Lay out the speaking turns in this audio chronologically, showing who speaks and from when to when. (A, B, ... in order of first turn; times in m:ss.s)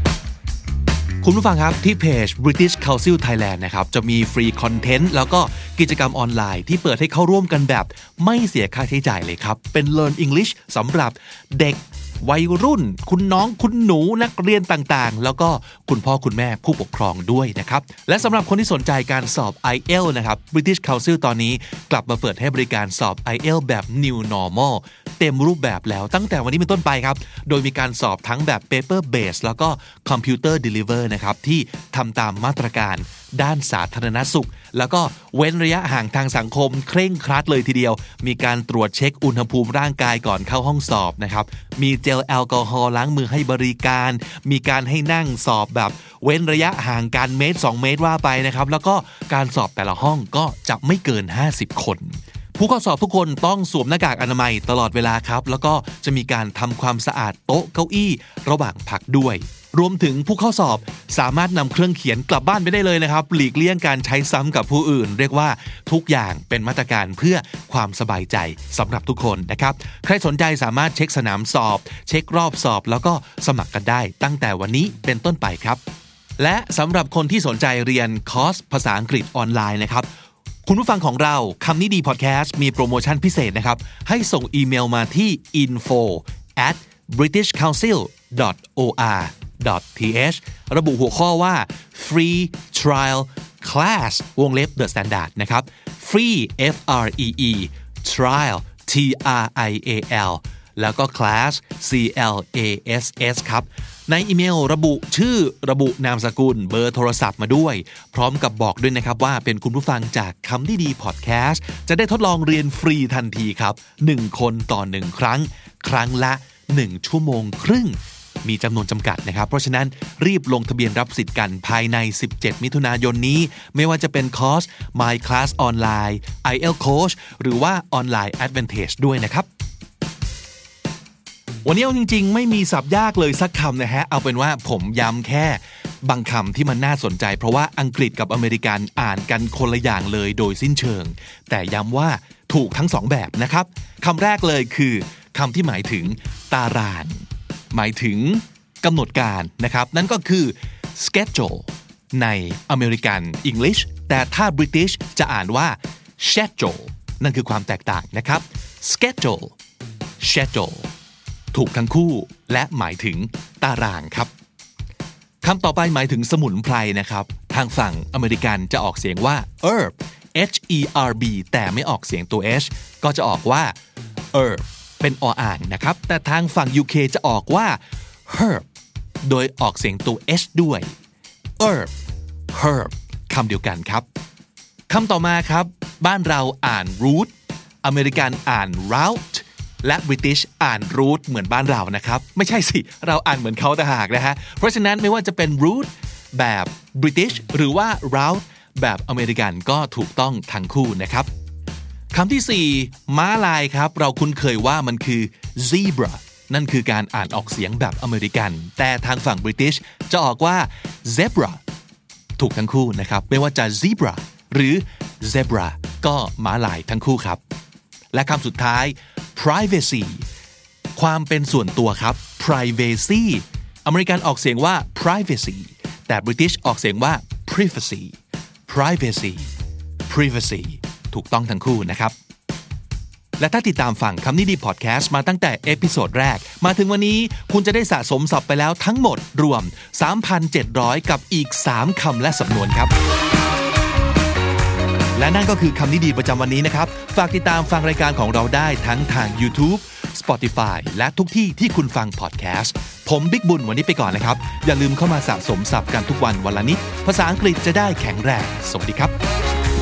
0:01.2-1:15.8 A
1:16.4-1:20.1 A
1:20.6-2:09.5 A
2:11.6-2:39.5 A
2:40.2-2:40.9 A
2:41.5-2:44.3 A
2:45.4-2:53.7 A
2:54.3-2:58.6 A
2:59.2-3:00.9 A
3:01.6-3:01.9 A
3:02.5-3:04.0 A
3:04.9-3:21.3 A
3:22.1-3:31.6 A
3:32.4-3:37.4 A
3:38.1-3:40.2 A
3:40.9-3:48.2 A
3:48.7-3:49.5 A
3:50.1-3:52.1 A
3:53.4-4:02.9 A
4:05.2-4:19.1 A